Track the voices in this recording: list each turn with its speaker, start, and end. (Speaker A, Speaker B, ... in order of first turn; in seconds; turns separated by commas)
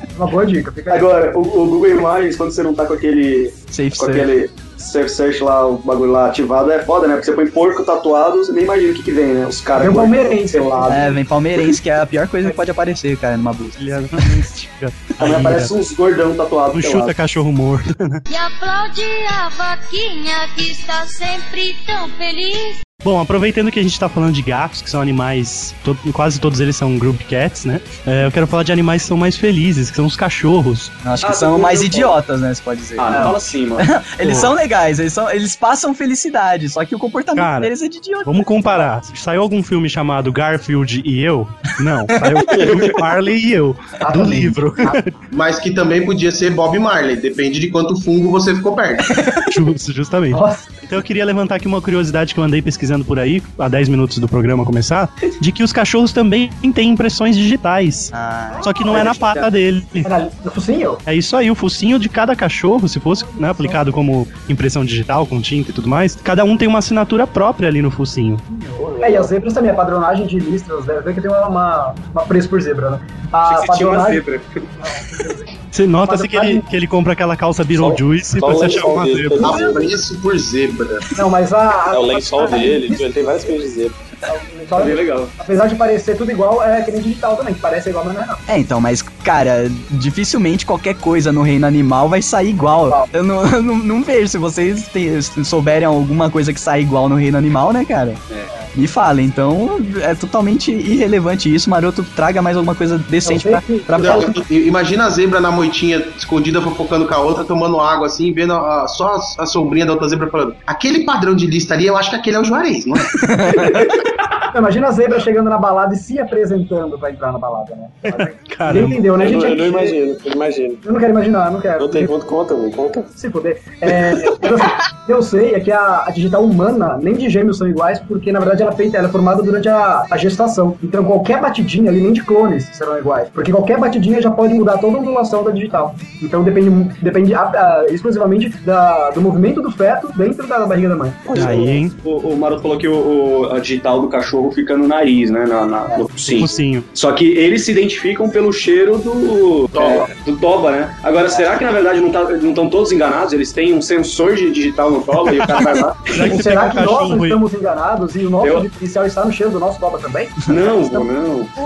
Speaker A: 0.1-1.1, Speaker B: 0.9-11.0, Speaker C: 3.7-4.3, Speaker A: 9.8-11.1, Speaker C: 10.9-13.8, Speaker D: 13.8-15.7, Speaker B: 15.2-17.1, Speaker D: 16.7-18.2, Speaker E: 18.3-22.8, Speaker D: 23.0-30.9, Speaker C: 31.0-38.8, Speaker B: 31.2-32.1, Speaker B: 33.0-33.9, Speaker D: 34.2-34.5, Speaker D: 37.4-37.7, Speaker D: 38.3-45.1, Speaker C: 42.0-42.6, Speaker A: 44.0-45.0, Speaker F: 45.3-49.1, Speaker C: 49.1-49.4, Speaker D: 49.5-60.1, Speaker A: 50.3-50.7, Speaker C: 58.1-58.7, Speaker A: 58.6-59.0, Speaker B: 58.9-59.5, Speaker A: 60.0-61.0, Speaker D: 61.1-68.4, Speaker A: 63.1-63.8, Speaker A: 68.5-74.2, Speaker G: 68.8-69.3, Speaker B: 73.4-74.7, Speaker A: 74.8-76.7, Speaker D: 75.7-79.5, Speaker G: 77.7-79.9, Speaker F: 79.4-81.1, Speaker A: 79.5-79.8, Speaker A: 81.1-83.6, Speaker G: 81.9-84.0, Speaker A: 84.3-88.4, Speaker B: 84.7-85.3, Speaker C: 88.5-98.2, Speaker A: 92.7-93.1, Speaker C: 98.7-104.3, Speaker A: 103.3-104.4, Speaker F: 104.0-113.2, Speaker C: 113.2-113.9, Speaker A: 114.5-120.0, Speaker D: 118.1-119.1, Speaker G: 119.2-120.8, Speaker A: 120.8-122.1, Speaker G: 121.8-123.1, Speaker A: 123.2-141.8, Speaker B: 141.3-156.1, Speaker D: 141.3-141.9, Speaker A: 145.9-146.1, Speaker D: 146.3-146.9, Speaker F: 149.7-150.1, Speaker D: 156.1-157.4, Speaker A: 156.2-161.1, Speaker B: 158.4-158.7, Speaker B: 160.5-161.5